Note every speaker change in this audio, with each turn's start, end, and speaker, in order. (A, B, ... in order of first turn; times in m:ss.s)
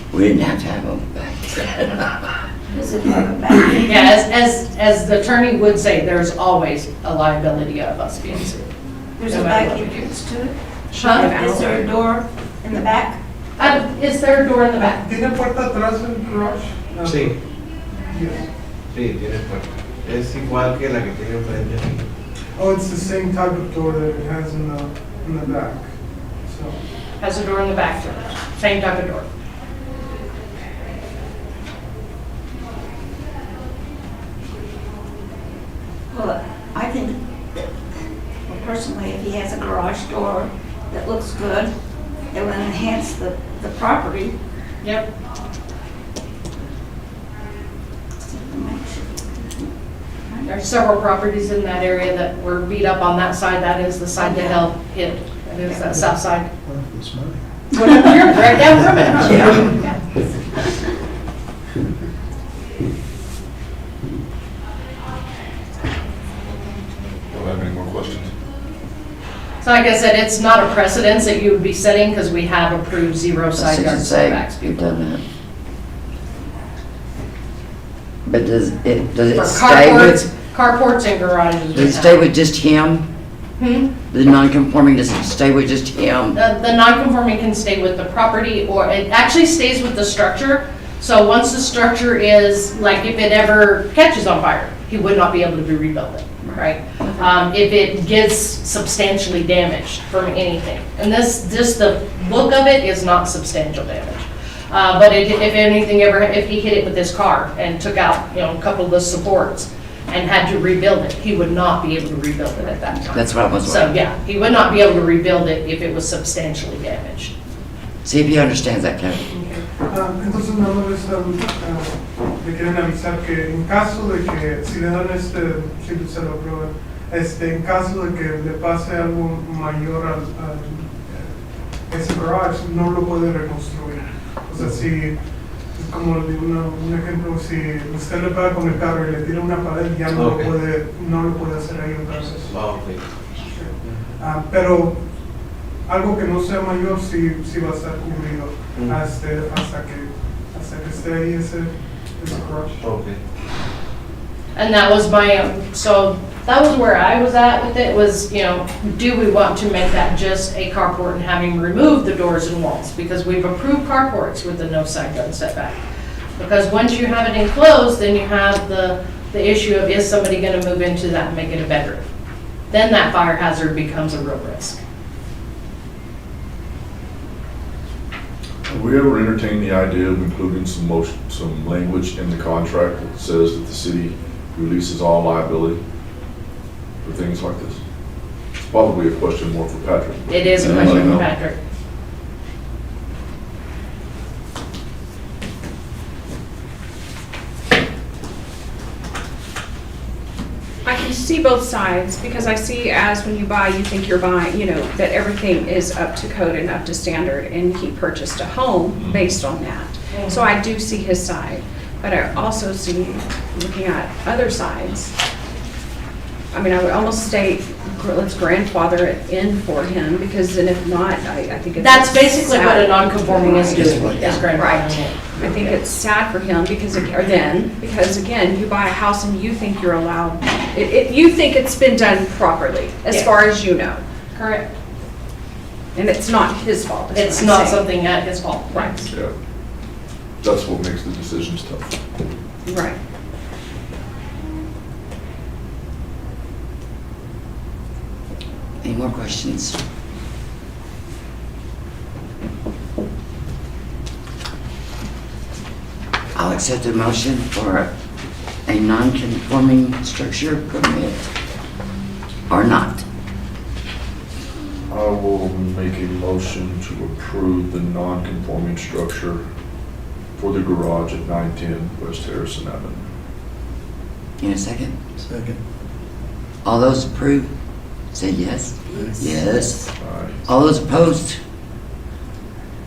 0:00.1-0:02.2 A
0:02.7-0:04.0 B
0:03.8-0:08.7 C
0:09.2-0:10.5 B
0:09.3-0:10.2 C
0:10.9-0:11.4 C
0:10.9-0:11.9 D
0:11.1-0:13.2 B
0:13.6-0:15.0 C
0:14.8-0:17.3 E
0:17.0-0:17.3 F
0:18.1-0:18.4 E
0:18.9-0:22.0 F
0:22.6-0:25.9 E
0:26.4-0:26.8 E
0:27.2-0:29.2 C
0:36.1-0:37.7 B
0:38.5-0:41.7 B
0:42.3-0:44.4 B
0:44.8-0:45.1 C
0:48.2-0:49.7 B
0:50.2-0:50.5 B
0:50.4-0:56.5 C
0:54.2-0:54.7 B
0:57.7-1:00.1 C
0:59.3-0:59.6 A
1:07.3-1:08.3 G
1:09.6-1:14.8 C
1:13.5-1:15.2 A
1:18.2-1:20.3 A
1:19.3-1:22.2 C
1:21.7-1:23.1 A
1:23.6-1:23.9 C
1:24.1-1:26.4 A
1:26.3-1:57.3 C
1:36.4-1:37.3 D
1:53.1-1:53.9 A
1:58.0-1:59.4 A
1:59.7-2:11.2 E
2:11.9-2:15.1 E
2:15.7-2:22.6 E
2:20.1-2:20.5 F
2:22.5-2:23.0 F
2:23.5-2:25.0 E
2:25.8-2:32.8 E
2:32.8-2:33.2 F
2:34.6-2:45.8 C
2:46.4-2:52.0 C
2:52.7-2:54.8 C
2:58.7-3:05.8 G
3:07.0-3:07.8 G
3:08.6-3:11.3 G
3:10.3-3:11.6 C
3:10.7-3:11.1 A
3:20.8-3:35.1 D
3:28.9-3:29.3 G
3:30.1-3:30.4 C
3:36.5-3:54.0 D
3:41.8-3:45.8 C
3:43.7-3:44.5 A
3:53.1-3:53.4 C
3:54.3-3:54.7 C
3:55.9-3:57.8 D
3:57.1-3:59.1 C
3:58.7-3:59.0 D
4:00.4-4:02.0 G
4:02.6-4:03.0 D
4:08.8-4:09.8 A
4:16.3-4:17.9 A
4:18.7-4:21.3 A
4:22.5-4:23.0 A
4:24.9-4:29.4 G
4:30.4-4:33.0 G
4:34.4-4:35.0 A
4:36.6-4:37.5 A
4:38.1-4:39.9 A
4:40.0-4:40.4 G
4:40.5-4:41.4 A